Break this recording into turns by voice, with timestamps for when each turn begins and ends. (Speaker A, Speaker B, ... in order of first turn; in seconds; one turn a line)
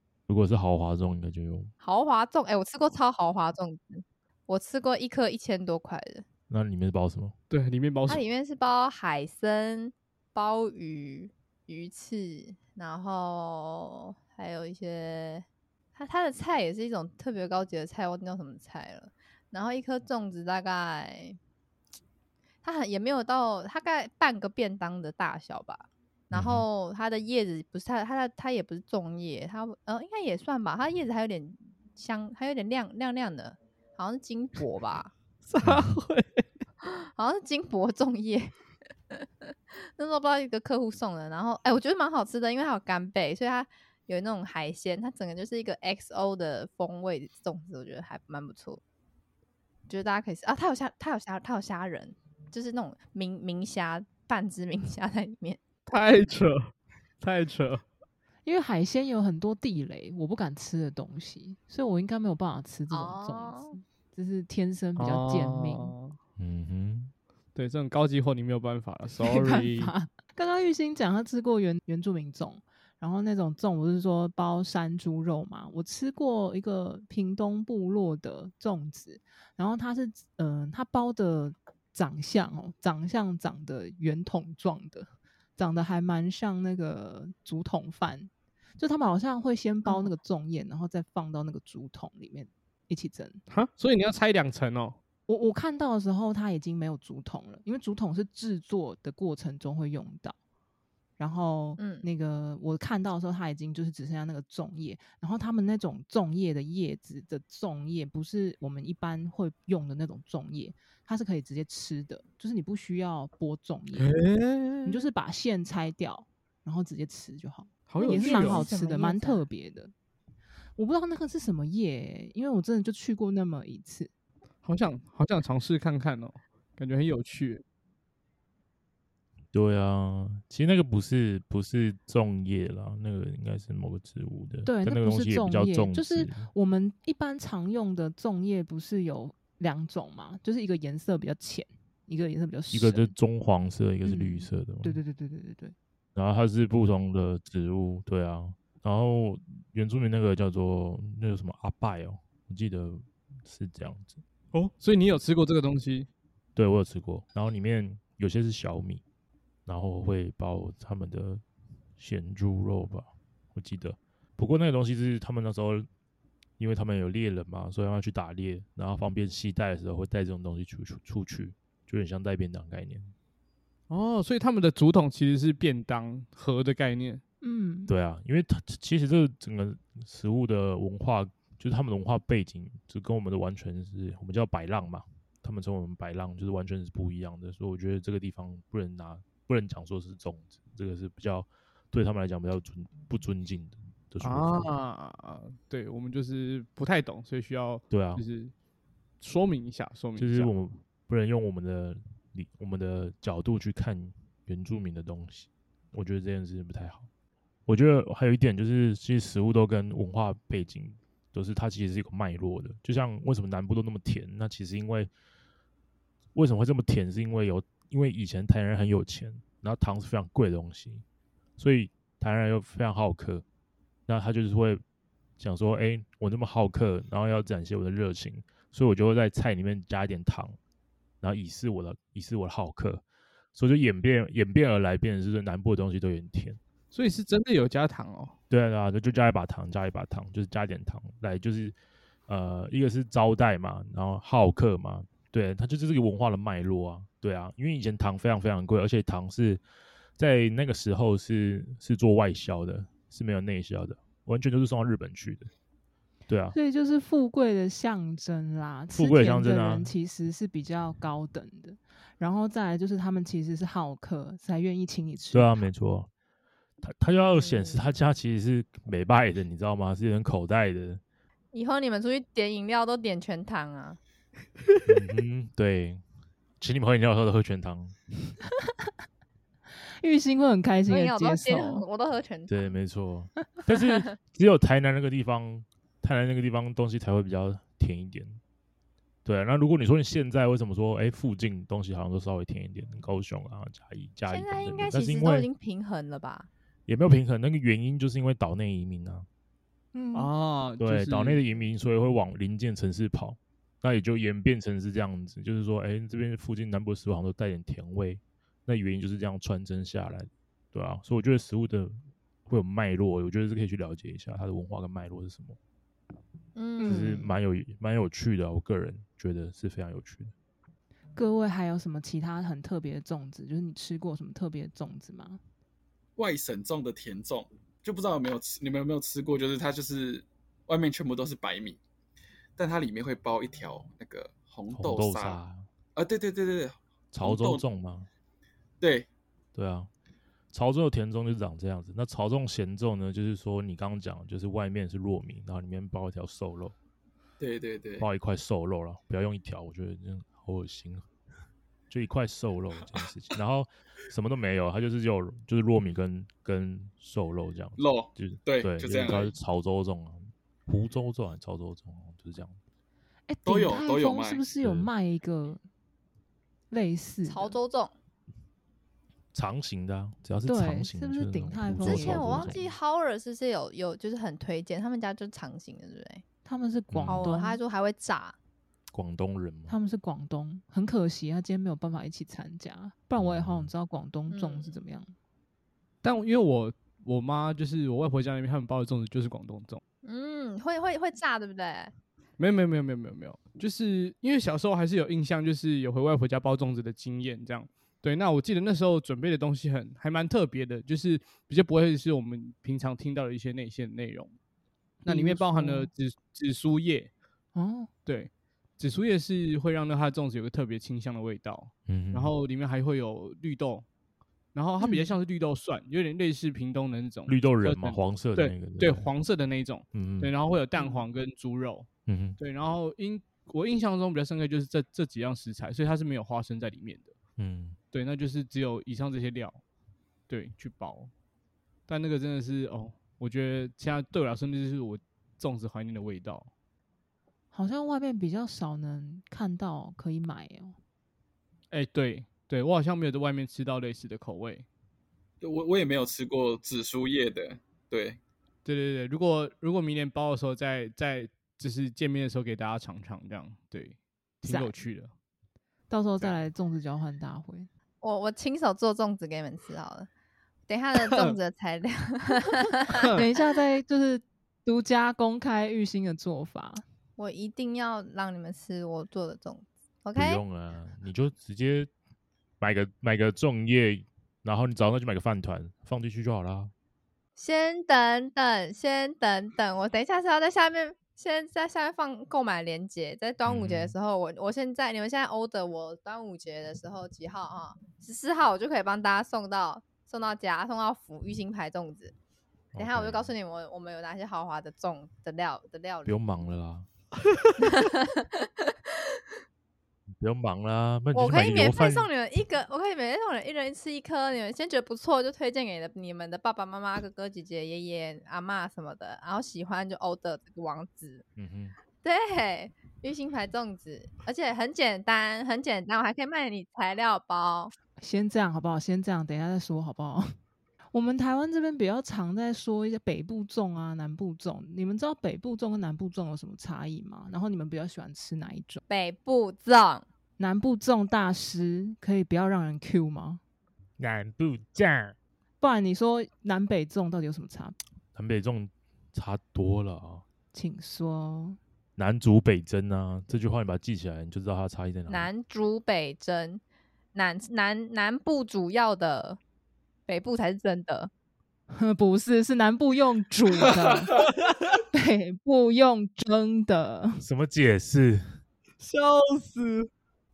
Speaker A: 0.3-1.7
Speaker B: 1.8-6.2
Speaker A: 6.5-7.3
Speaker C: 7.5-8.2
Speaker B: 8.1-21.4
Speaker B: 22.6-35.1
Speaker A: 26.3-26.6
Speaker C: 35.5-36.4
Speaker A: 35.6-35.9
Speaker B: 36.9-38.5
Speaker B: 39.1-48.8
Speaker B: 49.9-55.6
Speaker C: 55.9-57.8
Speaker D: 58.5-66.0
Speaker B: 62.9-63.8
Speaker C: 65.0-66.2
Speaker A: 66.4-67.1
Speaker C: 67.5-69.9
Speaker D: 69.2-93.4
Speaker C: 93.5-95.0
Speaker D: 95.3-100.4
Speaker D: 101.2-114.2
Speaker B: 101.8-102.1
Speaker C: 113.9-115.1
Speaker D: 114.8-119.9
Speaker C: 117.9-118.7
Speaker B: 118.0-119.4
Speaker D: 120.8-124.1
Speaker C: 124.6-127.6
Speaker A: 129.5-136.5
Speaker D: 134.7-143.1
Speaker A: 142.7-145.0
Speaker D: 144.1-145.8
Speaker A: 146.2-154.2
Speaker C: 154.5-156.1
Speaker A: 156.6-159.0
Speaker A: 159.7-161.4
Speaker A: 162.0-165.9
Speaker A: 166.6-173.1
Speaker C: 173.9-177.2
Speaker D: 177.4-177.9
Speaker A: 177.9-194.7
Speaker C: 194.2-198.5
Speaker A: 197.9-198.2
Speaker C: 199.2-200.5
Speaker A: 200.2-207.1
Speaker A: 207.7-215.1
Speaker A: 216.3-221.0
Speaker A: 221.6-223.4
Speaker A: 224.1-224.8
Speaker A: 225.4-230.6
Speaker A: 231.2-233.0
Speaker A: 233.6-236.6
Speaker C: 236.9-238.3
Speaker A: 238.5-241.8
Speaker A: 242.3-249.6
Speaker A: 250.2-255.5
Speaker A: 256.3-256.6
Speaker D: 256.5-265.7
Speaker A: 258.9-259.9
Speaker A: 265.3-266.1
Speaker A: 266.8-271.0
Speaker B: 267.3-267.8
Speaker B: 271.5-274.0
Speaker A: 274.9-276.0
Speaker A: 276.6-277.9
Speaker D: 280.0-281.9
Speaker B: 280.9-282.8
Speaker A: 282.5-288.4
Speaker B: 283.8-284.1
Speaker A: 289.2-295.5
Speaker B: 294.3-296.5
Speaker A: 296.9-299.3
Speaker D: 299.9-300.3
Speaker C: 300.1-301.4
Speaker A: 300.8-315.6
Speaker B: 316.6-317.1
Speaker D: 316.8-317.3
Speaker A: 316.8-320.3
Speaker D: 321.2-325.4
Speaker E: 326.2-331.8
Speaker E: 332.6-335.4
Speaker A: 334.7-335.7
Speaker E: 336.0-337.6
Speaker A: 337.1-338.1
Speaker E: 338.8-339.1
Speaker A: 339.6-339.9
Speaker A: 340.5-346.8
Speaker E: 347.4-348.1
Speaker A: 348.0-351.1
Speaker A: 351.9-362.6
Speaker E: 357.8-359.3
Speaker D: 363.3-365.6
Speaker E: 363.4-364.5
Speaker A: 364.6-364.9
Speaker D: 366.7-367.6
Speaker B: 367.3-367.9
Speaker A: 369.3-372.6
Speaker D: 370.4-372.6
Speaker B: 371.8-376.2
Speaker D: 376.4-377.6
Speaker A: 376.9-377.3
Speaker B: 377.1-378.4
Speaker A: 378.9-379.8
Speaker D: 379.7-385.1
Speaker A: 383.2-383.7
Speaker B: 384.3-384.8
Speaker C: 386.0-389.8
Speaker B: 390.0-391.9
Speaker C: 392.4-404.3
Speaker C: 405.0-407.1
Speaker D: 405.1-405.9
Speaker D: 407.6-407.9
Speaker C: 408.1-413.9
Speaker A: 411.9-412.3
Speaker C: 414.6-421.9
Speaker D: 414.8-415.1
Speaker A: 417.3-419.1
Speaker A: 419.9-420.3
Speaker D: 420.8-421.0
Speaker A: 422.1-422.4
Speaker C: 422.4-427.1
Speaker A: 427.4-427.8
Speaker C: 427.9-429.6
Speaker C: 430.3-431.1
Speaker C: 431.9-436.5
Speaker D: 437.5-440.8
Speaker C: 441.7-444.7
Speaker E: 445.4-448.2
Speaker C: 448.6-455.1
Speaker D: 454.4-454.7
Speaker D: 455.9-457.7
Speaker B: 458.0-460.1
Speaker B: 460.7-463.0
Speaker C: 461.1-461.4
Speaker C: 463.0-463.2
Speaker D: 463.1-466.8
Speaker B: 467.2-470.4
Speaker A: 470.2-471.9
Speaker A: 472.6-476.7
Speaker B: 477.4-492.1
Speaker A: 483.5-484.0
Speaker A: 492.7-493.3
Speaker B: 492.8-496.2
Speaker A: 496.1-496.9
Speaker B: 497.6-498.7
Speaker A: 500.2-502.1
Speaker B: 501.1-511.2
Speaker A: 511.4-511.8
Speaker B: 512.0-517.7
Speaker D: 518.0-520.3
Speaker D: 520.9-528.8
Speaker B: 528.9-530.1
Speaker D: 530.4-533.4
Speaker A: 534.0-535.2
Speaker D: 535.6-537.8
Speaker A: 538.1-540.2
Speaker D: 540.5-541.6
Speaker A: 542.0-545.3
Speaker B: 545.1-546.6
Speaker B: 547.1-549.4
Speaker B: 550.1-551.1
Speaker D: 551.7-554.1
Speaker D: 554.9-557.2
Speaker A: 557.2-558.4
Speaker C: 558.8-559.9